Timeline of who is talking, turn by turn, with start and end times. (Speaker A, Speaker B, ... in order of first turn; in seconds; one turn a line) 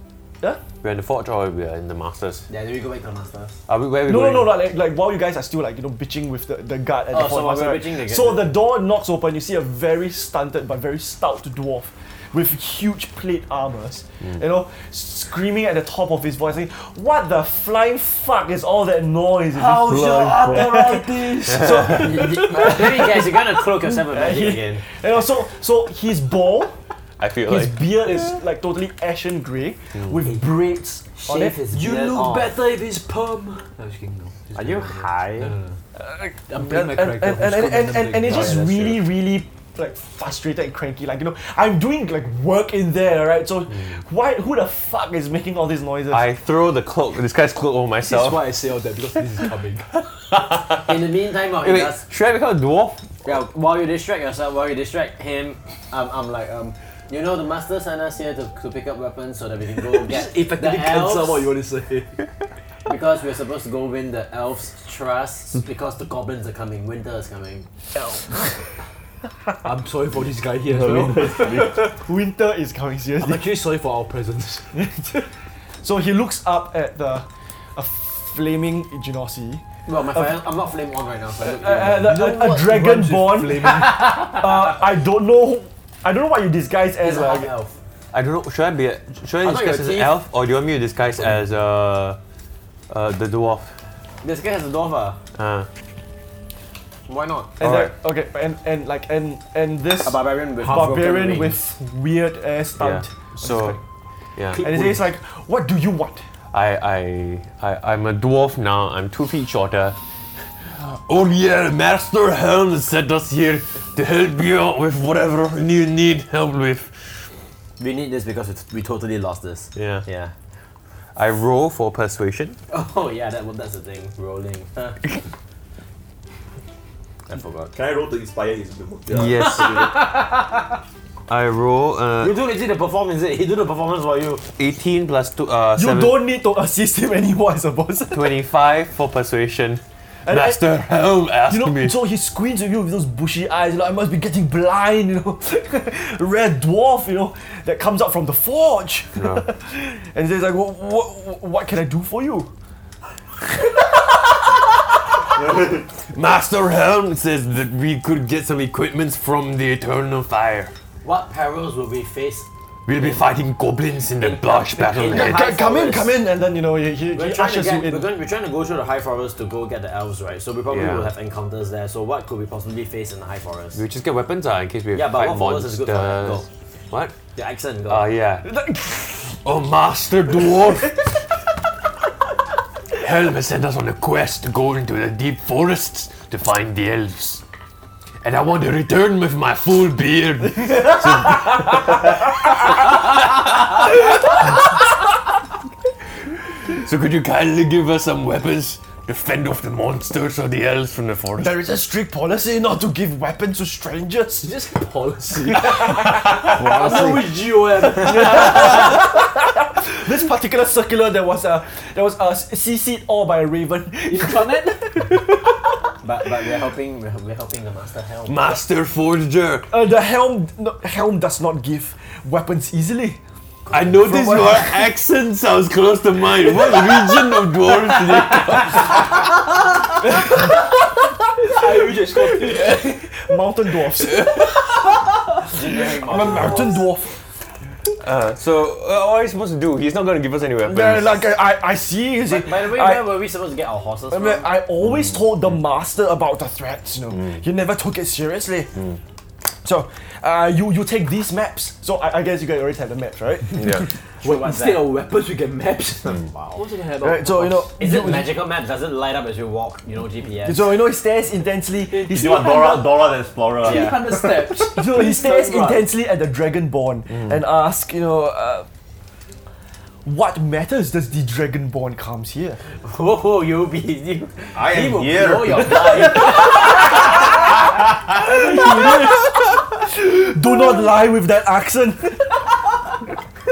Speaker A: 0.8-2.5
Speaker B: 2.5-3.6
Speaker A: 3.7-4.6
Speaker C: 4.1-26.8
Speaker B: 7.1-8.5
Speaker D: 19.5-22.1
Speaker E: 19.8-20.9
Speaker B: 21.9-24.9
Speaker A: 27.2-27.8
Speaker C: 27.5-31.6
Speaker B: 30.0-30.4
Speaker B: 31.2-32.5
Speaker D: 31.7-35.8
Speaker B: 34.5-35.5
Speaker C: 36.0-46.3
Speaker D: 36.5-38.7
Speaker B: 38.2-39.0
Speaker A: 46.1-48.4
Speaker D: 48.0-49.9
Speaker A: 50.0-51.0
Speaker B: 50.7-52.1
Speaker A: 51.5-53.1
Speaker B: 53.2-61.5
Speaker D: 59.8-62.2
Speaker B: 62.9-67.7
Speaker C: 68.0-68.5
Speaker D: 69.6-71.9
Speaker E: 70.7-71.8
Speaker C: 71.7-73.6
Speaker D: 73.2-74.8
Speaker C: 74.7-75.3
Speaker C: 75.8-79.6
Speaker B: 79.9-82.4
Speaker C: 81.4-87.5
Speaker D: 82.1-84.2
Speaker B: 83.9-84.7
Speaker B: 87.0-87.8
Speaker A: 88.1-92.2
Speaker B: 89.4-90.2
Speaker A: 92.9-93.8
Speaker B: 94.2-95.2
Speaker A: 95.4-95.7
Speaker B: 97.1-97.6
Speaker C: 97.6-103.8
Speaker A: 97.6-97.9
Speaker B: 100.0-101.6
Speaker A: 102.8-103.8
Speaker A: 104.4-104.7
Speaker C: 104.5-106.2
Speaker B: 104.5-105.0
Speaker A: 106.5-110.0
Speaker A: 110.6-117.3
Speaker B: 117.8-120.3
Speaker A: 119.8-120.0
Speaker A: 121.2-122.6
Speaker B: 122.7-125.0
Speaker B: 127.3-127.7
Speaker E: 127.7-130.1
Speaker A: 129.1-130.0
Speaker B: 129.4-130.8
Speaker A: 131.3-132.3
Speaker B: 132.2-134.4
Speaker A: 134.4-136.2
Speaker C: 135.8-138.4
Speaker A: 138.1-142.0
Speaker C: 140.3-140.7
Speaker C: 141.5-152.5
Speaker A: 149.2-149.5
Speaker A: 156.0-160.7
Speaker B: 161.0-163.3
Speaker A: 162.9-165.5
Speaker B: 164.2-166.2
Speaker C: 165.0-168.1
Speaker B: 167.1-173.8
Speaker A: 170.7-171.1
Speaker A: 173.7-177.2
Speaker B: 174.9-176.5
Speaker B: 177.3-178.1
Speaker A: 177.9-178.7
Speaker C: 178.4-179.4
Speaker A: 179.3-181.2
Speaker A: 182.9-187.4
Speaker A: 188.2-194.6
Speaker A: 196.7-201.5
Speaker C: 201.4-204.5
Speaker D: 204.4-209.0
Speaker C: 205.5-206.7
Speaker E: 206.6-207.2
Speaker C: 207.8-215.6
Speaker D: 214.1-214.8
Speaker B: 216.0-218.4
Speaker A: 218.3-219.7
Speaker C: 219.7-223.2
Speaker A: 223.7-229.1
Speaker C: 224.0-224.9
Speaker C: 230.0-230.8
Speaker D: 231.4-233.3
Speaker C: 231.4-235.0
Speaker B: 235.4-236.8
Speaker C: 235.5-237.2
Speaker A: 238.0-241.3
Speaker C: 240.6-243.2
Speaker B: 242.3-244.5
Speaker C: 244.1-248.8
Speaker C: 249.6-253.9
Speaker A: 253.5-253.9
Speaker D: 253.8-257.7
Speaker B: 254.2-254.9
Speaker B: 256.2-256.6
Speaker C: 257.0-258.4
Speaker B: 257.8-260.8
Speaker C: 260.4-262.7
Speaker D: 261.9-263.0
Speaker E: 262.1-264.7
Speaker D: 263.6-265.8
Speaker B: 263.6-264.1
Speaker C: 264.6-268.7
Speaker C: 270.1-272.6
Speaker B: 272.8-277.1
Speaker E: 274.5-276.4
Speaker C: 275.6-277.1
Speaker C: 278.1-282.4